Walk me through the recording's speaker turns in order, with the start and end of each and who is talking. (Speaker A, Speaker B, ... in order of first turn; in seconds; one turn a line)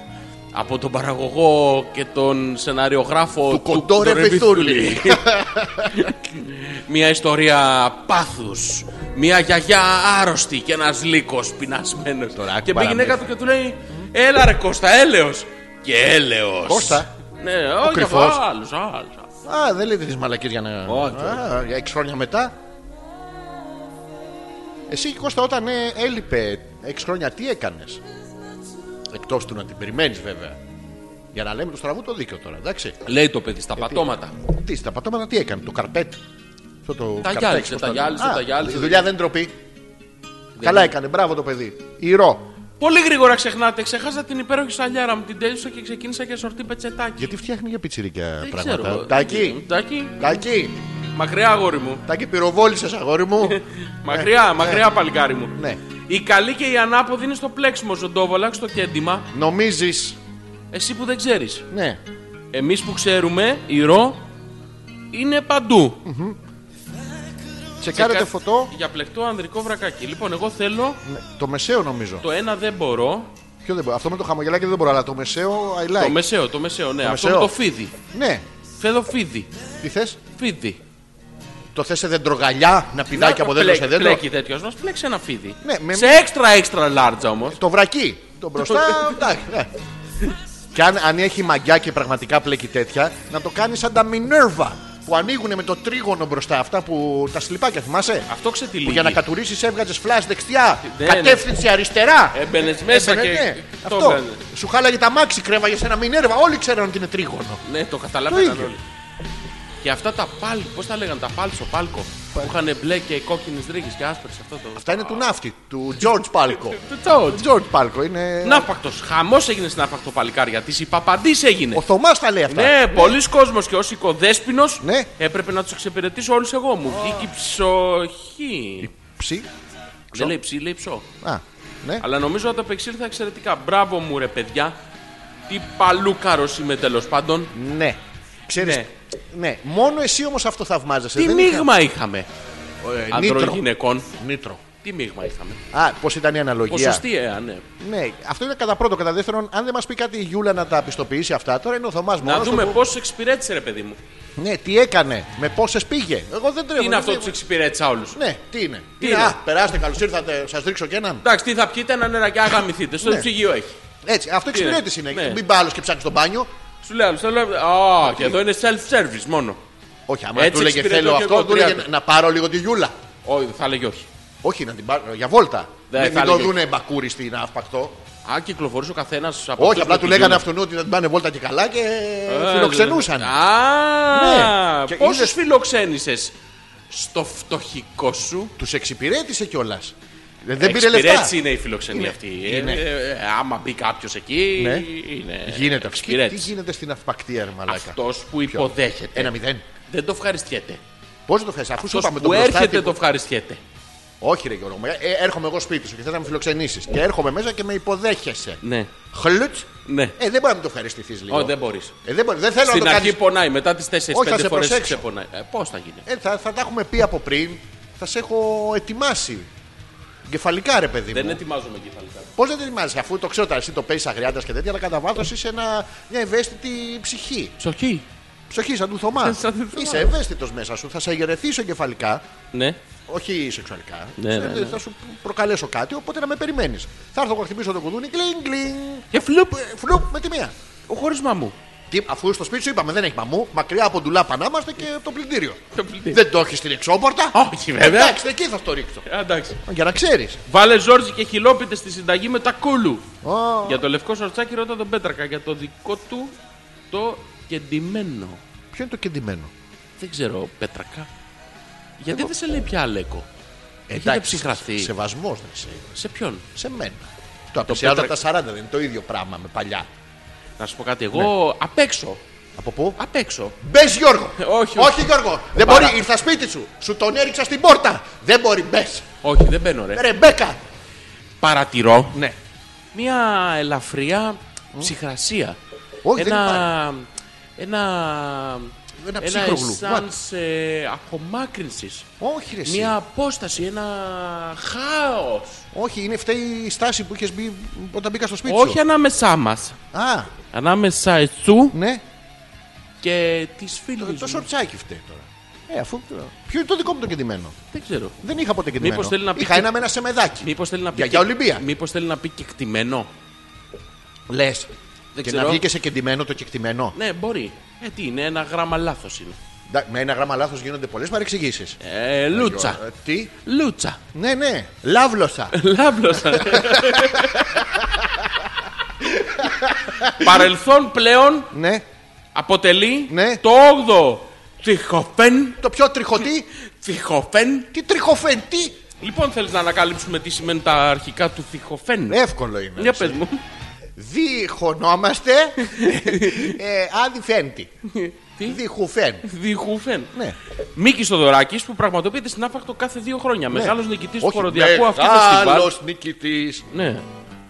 Speaker A: 0.5-5.3
Speaker B: 3.5-6.1
Speaker A: 5.8-19.3
Speaker B: 12.4-13.3
Speaker B: 16.6-17.1
Speaker B: 17.8-18.4
Speaker B: 19.4-22.5
Speaker A: 20.9-21.5
Speaker B: 24.9-28.0
Speaker B: 29.1-30.6
Speaker B: 31.3-33.0
Speaker A: 33.0-34.4
Speaker B: 33.8-36.2
Speaker B: 36.8-39.6
Speaker A: 37.2-39.1
Speaker A: 40.6-41.0
Speaker B: 40.6-42.5
Speaker A: 42.8-47.3
Speaker B: 47.2-49.6
Speaker A: 48.4-50.2
Speaker B: 50.2-50.8
Speaker A: 51.1-52.0
Speaker B: 52.1-54.9
Speaker A: 53.4-55.5
Speaker B: 55.5-55.8
Speaker A: 56.1-59.3
Speaker B: 59.3-60.2
Speaker A: 60.7-61.7
Speaker B: 61.7-62.0
Speaker A: 62.5-64.2
Speaker A: 65.1-66.0
Speaker B: 66.0-66.4
Speaker B: 67.8-68.7
Speaker A: 67.9-71.0
Speaker B: 71.0-72.3
Speaker A: 72.2-73.3
Speaker B: 73.6-76.2
Speaker A: 76.0-77.9
Speaker B: 77.0-77.5
Speaker B: 78.1-78.5
Speaker A: 78.8-79.5
Speaker B: 79.8-80.2
Speaker A: 80.4-80.8
Speaker B: 81.7-84.2
Speaker A: 83.1-87.6
Speaker B: 85.6-86.2
Speaker B: 87.5-89.7
Speaker A: 88.6-89.1
Speaker B: 90.7-98.3
Speaker A: 98.3-99.2
Speaker B: 98.8-107.6
Speaker A: 100.8-101.5
Speaker A: 102.3-104.4
Speaker A: 107.6-108.8
Speaker B: 108.3-108.8
Speaker A: 109.8-115.3
Speaker B: 114.8-118.7
Speaker A: 116.7-117.5
Speaker A: 118.4-121.8
Speaker B: 121.7-123.2
Speaker A: 122.5-128.9
Speaker B: 124.8-125.1
Speaker B: 128.8-129.5
Speaker A: 130.1-131.1
Speaker B: 131.2-132.1
Speaker A: 132.0-134.8
Speaker A: 135.5-137.5
Speaker B: 137.5-141.7
Speaker A: 138.6-138.9
Speaker A: 141.2-142.3
Speaker B: 142.8-144.6
Speaker A: 143.1-144.1
Speaker A: 144.8-145.6
Speaker B: 145.7-147.0
Speaker A: 146.7-147.7
Speaker B: 147.8-152.8
Speaker A: 152.2-154.0
Speaker B: 154.4-157.4
Speaker A: 156.8-158.2
Speaker B: 158.2-161.2
Speaker A: 159.0-159.4
Speaker A: 161.2-163.8
Speaker B: 163.0-163.3
Speaker B: 164.0-166.5
Speaker A: 164.5-165.4
Speaker A: 166.8-169.6
Speaker B: 168.0-168.4
Speaker B: 170.1-172.9
Speaker A: 170.3-171.8
Speaker A: 173.2-174.1
Speaker B: 174.4-178.0
Speaker A: 175.9-176.6
Speaker A: 178.2-180.4
Speaker B: 179.6-183.4
Speaker A: 182.3-186.3
Speaker B: 184.1-185.4
Speaker A: 186.9-188.5
Speaker B: 188.6-191.4
Speaker A: 190.6-196.5
Speaker B: 191.9-192.8
Speaker B: 194.6-194.9
Speaker B: 195.4-199.7
Speaker A: 197.7-199.3
Speaker A: 199.9-200.8
Speaker B: 201.3-203.0
Speaker A: 201.8-203.6
Speaker B: 204.2-208.6
Speaker A: 208.6-208.9
Speaker B: 209.1-213.2
Speaker A: 209.9-210.2
Speaker A: 211.3-211.9
Speaker A: 212.6-216.0
Speaker B: 214.1-215.0
Speaker B: 216.1-219.5
Speaker B: 220.3-221.4
Speaker A: 221.1-222.3
Speaker B: 222.4-227.6
Speaker A: 227.6-228.1
Speaker B: 228.5-232.2
Speaker A: 229.2-230.1
Speaker B: 233.1-240.5
Speaker A: 234.2-234.8
Speaker A: 239.1-239.6
Speaker A: 240.9-241.6
Speaker B: 241.9-249.1
Speaker A: 245.8-246.2
Speaker A: 247.3-248.2
Speaker A: 249.1-249.6
Speaker B: 249.6-250.4
Speaker A: 250.5-253.1
Speaker B: 253.2-253.8
Speaker A: 253.7-256.3
Speaker A: 256.9-258.4
Speaker B: 258.7-259.5
Speaker A: 260.0-261.1
Speaker A: 262.0-263.3
Speaker B: 263.9-265.9
Speaker A: 263.9-264.9
Speaker A: 265.9-266.4
Speaker B: 266.6-269.9
Speaker A: 267.6-268.1
Speaker A: 270.6-272.2
Speaker B: 272.6-273.0
Speaker A: 273.0-273.6
Speaker B: 273.6-279.1
Speaker A: 274.4-276.0
Speaker A: 279.2-280.1
Speaker B: 279.9-280.6
Speaker A: 281.4-282.2
Speaker A: 282.9-285.6
Speaker B: 286.0-286.7
Speaker A: 286.1-287.1
Speaker A: 287.6-292.1
Speaker B: 289.0-290.1
Speaker B: 292.2-292.9
Speaker A: 292.7-295.6
Speaker B: 295.7-298.8
Speaker A: 298.5-299.8
Speaker B: 299.9-300.3
Speaker A: 300.5-301.8
Speaker B: 301.7-302.0
Speaker A: 303.0-304.5
Speaker B: 304.0-307.6
Speaker A: 307.7-308.2
Speaker B: 308.2-311.6
Speaker A: 308.8-309.7
Speaker A: 310.4-313.1
Speaker B: 314.3-314.7
Speaker A: 315.1-315.6
Speaker B: 315.2-316.9
Speaker A: 316.9-319.4
Speaker B: 319.7-321.8
Speaker A: 321.8-322.8
Speaker B: 322.3-323.3
Speaker A: 323.4-324.0
Speaker B: 324.1-325.6
Speaker A: 325.5-327.6
Speaker B: 326.3-328.3
Speaker B: 329.0-330.5
Speaker A: 330.2-331.5
Speaker B: 331.5-331.8
Speaker A: 332.4-335.6
Speaker B: 333.1-333.4
Speaker B: 335.6-336.5
Speaker A: 336.8-337.7
Speaker B: 337.7-338.8
Speaker A: 339.0-342.2
Speaker B: 342.1-343.2
Speaker A: 342.8-343.4
Speaker B: 344.0-347.7
Speaker A: 345.6-346.6
Speaker A: 347.9-348.6
Speaker B: 348.4-349.2
Speaker A: 349.2-350.1
Speaker A: 350.8-355.7
Speaker B: 353.5-356.7
Speaker A: 356.7-357.1